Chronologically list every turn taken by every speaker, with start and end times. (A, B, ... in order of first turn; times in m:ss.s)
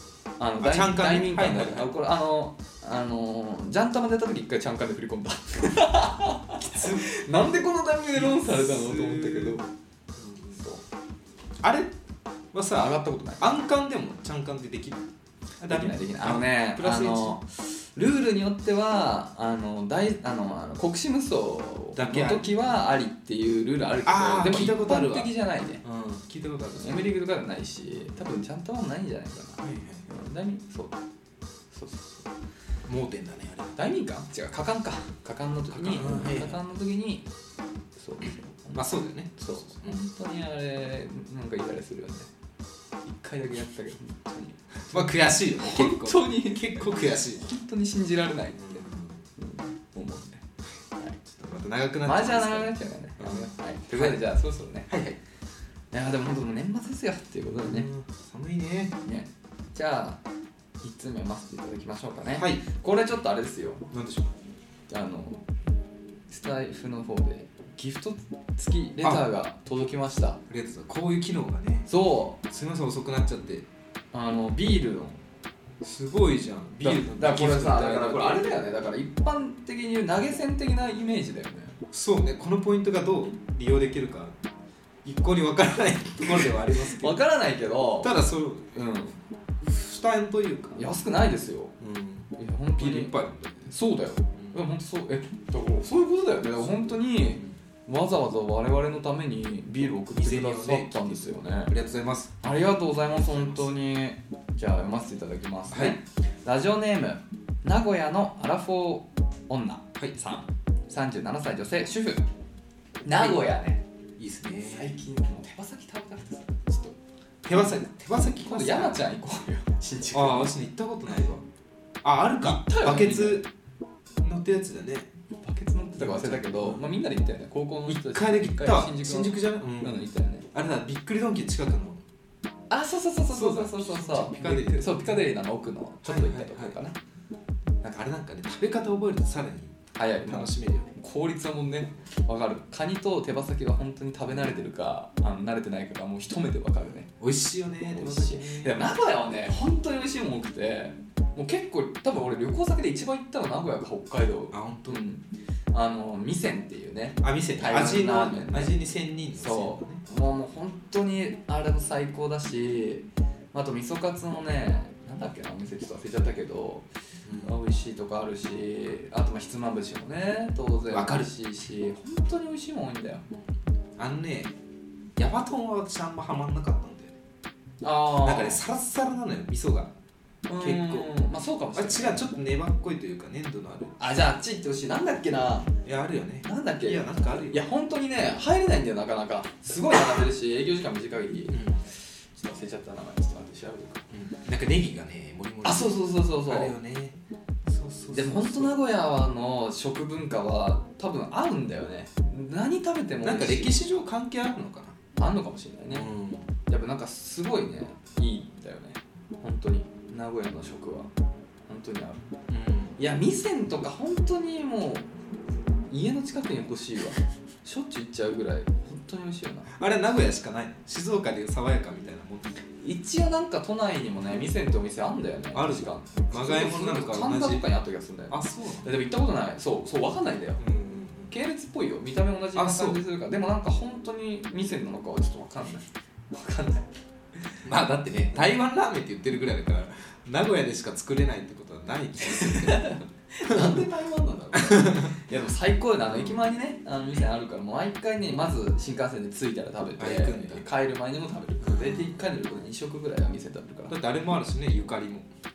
0:00.4-0:09.7 A
0:00.6-0:01.9 B
0:06.6-0:07.1 B
0:08.1-0:09.6 B
0:10.2-0:10.6 B
0:10.6-0:10.8 A
0:11.6-0:11.9 B
0:12.5-0:15.0 B
0:12.7-0:13.5 A
0:15.6-0:17.4 B
0:15.7-0:25.8 A
0:21.9-0:22.8 B
0:24.0-0:25.3 B
0:25.8-0:27.1 B
0:26.8-0:31.0 A
0:29.6-0:30.1 B
0:31.7-0:32.2 A
0:32.8-0:33.8 B
0:33.8-0:37.3 A
0:35.7-0:36.6 B
0:38.0-0:38.8 A
0:38.7-0:40.0 B
0:39.4-0:42.3 A
0:43.0-0:48.8 A
0:44.8-0:47.5 B
0:48.6-0:49.2 B
0:49.4-0:50.4 A
0:51.2-0:54.2 B
0:52.0-0:54.9 A
0:54.9-0:55.2 B
0:55.9-0:57.9 A
0:57.5-0:59.0 B
0:59.0-1:00.2 A
1:00.8-1:03.8 A
1:02.3-1:02.6 B
1:03.9-1:04.3 B
1:04.9-1:05.4 A
1:06.3-1:10.4 A
1:09.0-1:09.2 B
1:10.5-1:11.9 B
1:11.9-1:12.4 A
1:12.4-1:13.6 B
1:14.1-1:15.2 A
1:15.8-1:18.5 B
1:16.8-1:21.8 A
1:21.9-1:24.4 B
1:25.0-1:27.2 B
1:26.8-1:28.1 A
1:28.0-1:28.9 B
1:28.7-1:29.2 A
1:29.6-1:30.9 B
1:30.7-1:31.7 A
1:31.8-1:33.7 B
1:32.4-1:33.1 A
1:33.6-1:41.7 A
1:34.3-1:34.6 B
1:37.2-1:37.6 B
1:40.1-1:42.3 B
1:42.4-1:52.2 A
1:43.2-1:43.6 B
1:45.7-1:46.0 B
1:53.0-1:53.8 A
1:53.1-1:53.4 B
1:54.2-1:54.9 B
1:54.6-1:57.0 A
1:57.4-1:59.1 B
1:58.1-2:00.6 A
2:00.1-2:01.4 B
2:02.0-2:03.5 B
2:02.4-2:03.4 A
2:04.2-2:05.1 B
2:05.4-2:10.5 A
2:06.0-2:06.9 B
2:07.8-2:12.0 B
2:12.7-2:17.0 A
2:13.3-2:15.2 B
2:16.0-2:16.8 B
2:17.8-2:20.9 B
2:20.0-2:27.1 A
2:27.1-2:28.8 B
2:27.9-2:38.8 A
2:34.5-2:35.0 B
2:37.2-2:40.0 B
2:39.3-2:46.9 A
2:47.2-2:47.6 B
2:47.4-2:53.3 A
2:50.9-2:51.3 B
2:54.0-2:54.5 B
2:55.2-2:57.2 B
2:57.8-2:58.6 A
2:58.2-2:59.9 B
3:00.5-3:02.3 A
3:00.6-3:01.1 B
3:01.7-3:04.0 B
3:04.0-3:05.7 A
3:05.8-3:07.6 B
3:06.4-3:11.7 A
3:11.5-3:11.8 B
3:12.3-3:14.0 A
3:14.1-3:18.7 B
3:15.6-3:16.7 A
3:18.1-3:23.8 A
3:23.2-3:25.0 B
3:25.2-3:26.1 A
3:25.9-3:26.5 B
3:26.7-3:31.1 A
3:31.7-3:32.2 A
3:32.5-3:33.0 B
3:33.0-3:35.1 A
3:35.9-3:39.7 A
3:39.7-3:42.6 B
3:42.8-3:50.6 A
3:45.5-3:47.7 B
3:48.3-3:48.9 B
3:50.6-3:51.3 B
3:51.3-3:56.9 A
3:52.5-3:53.0 B
3:57.6-4:03.8 B
4:02.4-4:13.9 A
4:04.5-4:05.2 B
4:06.0-4:06.4 B
4:10.0-4:10.6 B
4:11.6-4:12.2 B
4:13.9-4:15.3 B